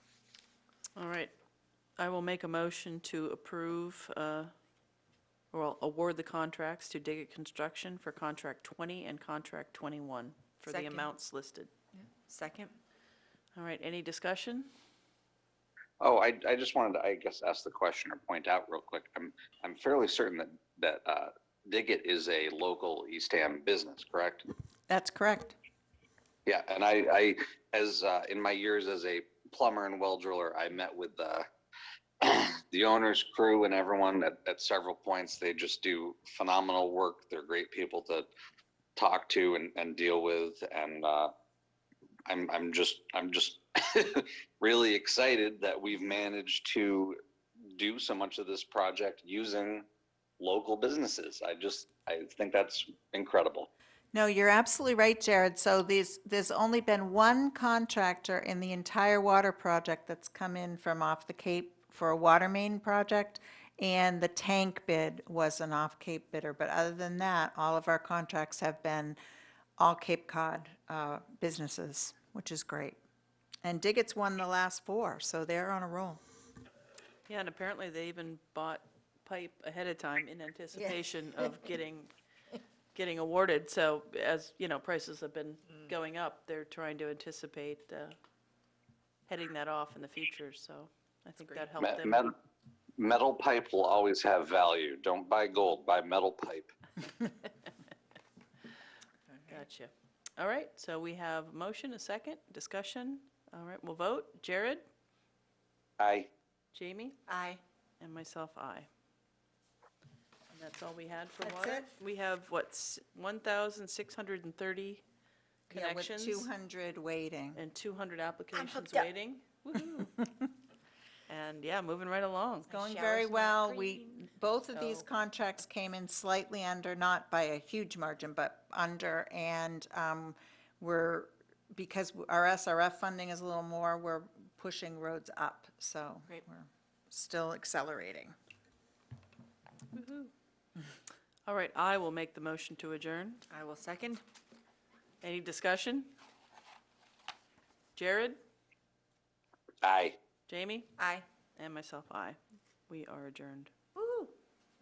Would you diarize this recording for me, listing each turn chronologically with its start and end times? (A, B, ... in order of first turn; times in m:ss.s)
0:01.0-0:01.3 A
0:02.0-0:04.5 A
0:05.5-0:11.7 A
0:10.7-0:11.1 B
0:12.0-0:12.7 B
0:13.6-0:14.7 A
0:16.0-0:24.5 C
0:24.9-0:25.6 D
0:26.4-0:31.4 C
0:32.2-0:38.3 C
0:39.0-0:41.3 C
0:42.3-0:47.2 C
0:47.8-0:49.9 C
0:50.4-0:53.7 C
0:54.1-1:09.2 D
1:09.8-1:13.0 D
1:13.6-1:16.2 D
1:17.3-1:22.1 A
1:22.9-1:28.1 A
1:29.3-1:32.2 A
1:31.8-1:32.3 C
1:33.0-1:36.7 C
1:39.5-1:44.8 A
1:46.0-1:46.3 C
1:46.7-1:47.2 A
1:47.3-1:47.6 D
1:48.0-1:48.9 A
1:50.5-1:55.0 A
1:51.4-1:51.9 D
1:55.7-1:56.5 A
1:55.7-1:57.6 D
1:57.5-2:00.3 A
2:01.3-2:02.7 A
2:02.7-2:18.3 D
2:02.7-2:04.0 B
2:04.8-2:05.0 A
2:19.9-2:20.3 A
2:21.4-2:23.4 A
2:23.5-2:24.2 B
2:25.2-2:26.1 A
2:27.9-2:28.4 A
2:29.8-2:30.2 C
2:30.5-2:30.9 A
2:31.0-2:31.2 B
2:31.6-2:32.4 A
2:32.9-2:33.7 A
2:34.0-2:34.3 B